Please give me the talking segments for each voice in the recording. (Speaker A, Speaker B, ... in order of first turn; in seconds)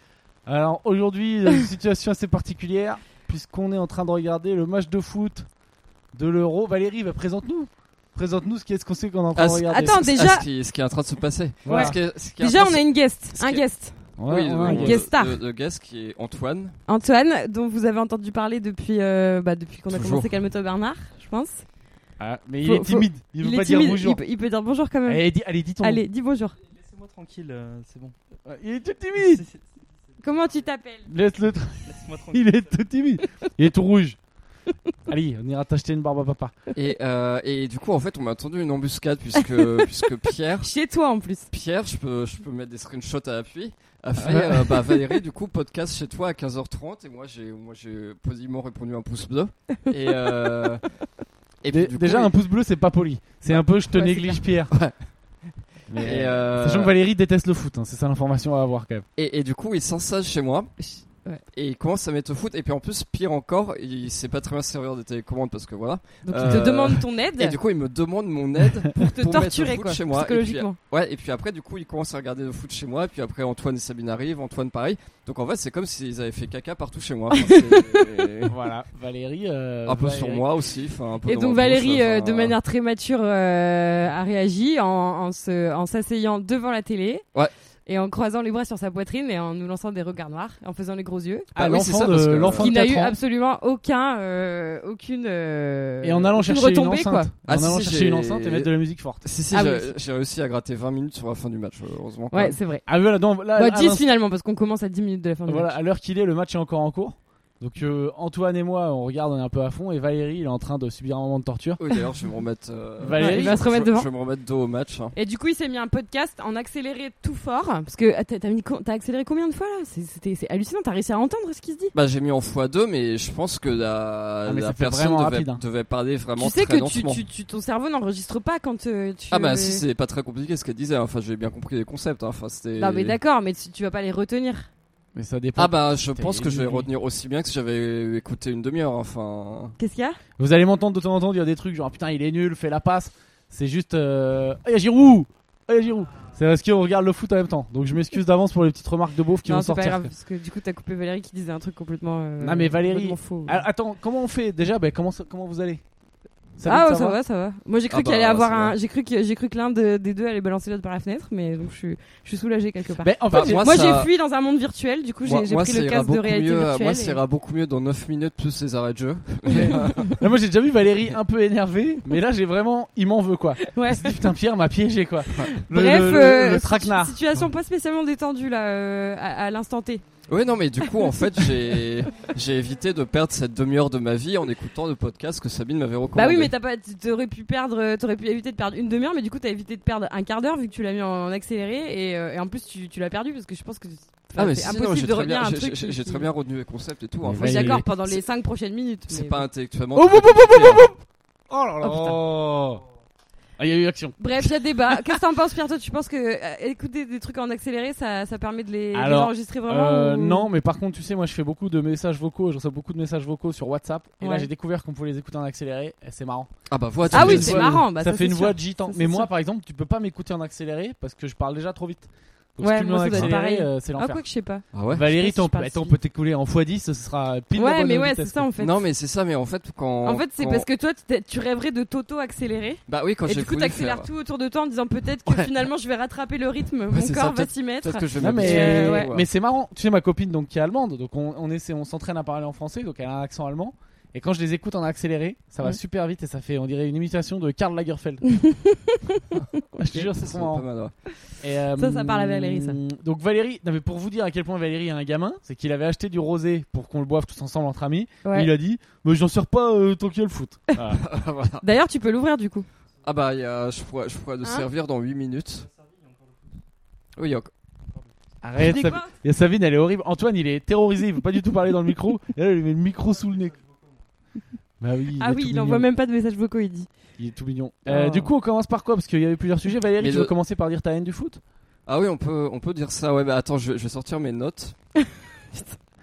Speaker A: 0.5-5.5, 6.1-10.0, 11.7-11.9, 14.2-15.0, 22.2-24.2, 25.1-26.0, 28.4-29.4, 31.1-34.2, 35.1-36.5, 44.2-44.9, 51.7-54.7, 55.9-59.0, 78.5-80.5, 91.5-93.2, 96.0-99.2, 102.9-104.0, 105.5-111.8, 113.0-113.5, 124.4-125.6, 135.1-136.9, 140.4-150.1, 152.4-155.8, 156.6-157.2, 163.0-163.9, 169.5-177.1, 197.2-197.9, 199.9-201.0, 201.5-202.8, 203.6-204.2, 208.9-216.5, 217.0-224.2, 224.9-228.4, 238.2-248.2, 249.7-250.6, 251.4-261.0, 268.4-273.6, 274.8-275.8, 277.2-281.4
Speaker B: 9.3-13.7, 14.2-16.8, 19.9-20.3, 36.7-40.7, 41.5-50.9, 51.6-52.3, 54.7-55.0, 56.0-56.9, 59.1-60.7, 61.5-78.5, 79.8-82.5, 91.5-92.7, 97.4-98.7, 99.2-102.6, 111.8-115.1, 121.9-127.2, 129.3-133.2, 135.6-139.8, 157.9-158.7, 163.3-164.1, 165.2-170.2, 180.3-186.5, 194.3-198.2, 199.1-200.9, 216.7-217.8, 223.1-223.3, 224.7-225.1, 228.6-230.7, 232.9-234.1, 235.3-235.5, 236.9-239.3, 249.9-250.9, 260.9-261.6, 263.0-265.6, 267.2-267.5, 280.0-280.3, 281.9-284.8
Speaker C: 9.7-10.5, 11.7-14.0, 14.6-15.4, 16.9-21.7, 22.6-25.3, 25.8-26.6, 30.2-31.1, 39.4-39.9, 40.6-41.5, 53.9-54.4, 66.2-67.6, 69.0-70.8, 77.3-78.5, 81.2-87.2, 87.8-91.5, 92.6-97.3, 99.5-99.9, 102.3-102.9, 103.5-105.7, 113.2-114.1, 115.1-121.9, 126.4-129.8, 132.8-134.7, 139.8-140.2, 149.4-153.6, 156.6-167.2, 169.5-170.1, 173.7-174.3, 175.5-180.0, 180.8-181.5, 186.1-196.3, 197.4-199.4, 201.8-202.2, 204.2-210.5, 214.2-214.5, 217.1-219.3, 222.6-226.0, 227.6-228.8, 230.0-239.1, 248.3-249.0, 251.8-252.8, 258.2-258.5, 261.6-262.6, 268.6-269.1, 275.2-276.9, 277.9-278.3, 285.0-285.8
Speaker D: 26.6-28.1, 29.1-30.7, 31.8-32.9, 265.6-266.6, 273.0-274.1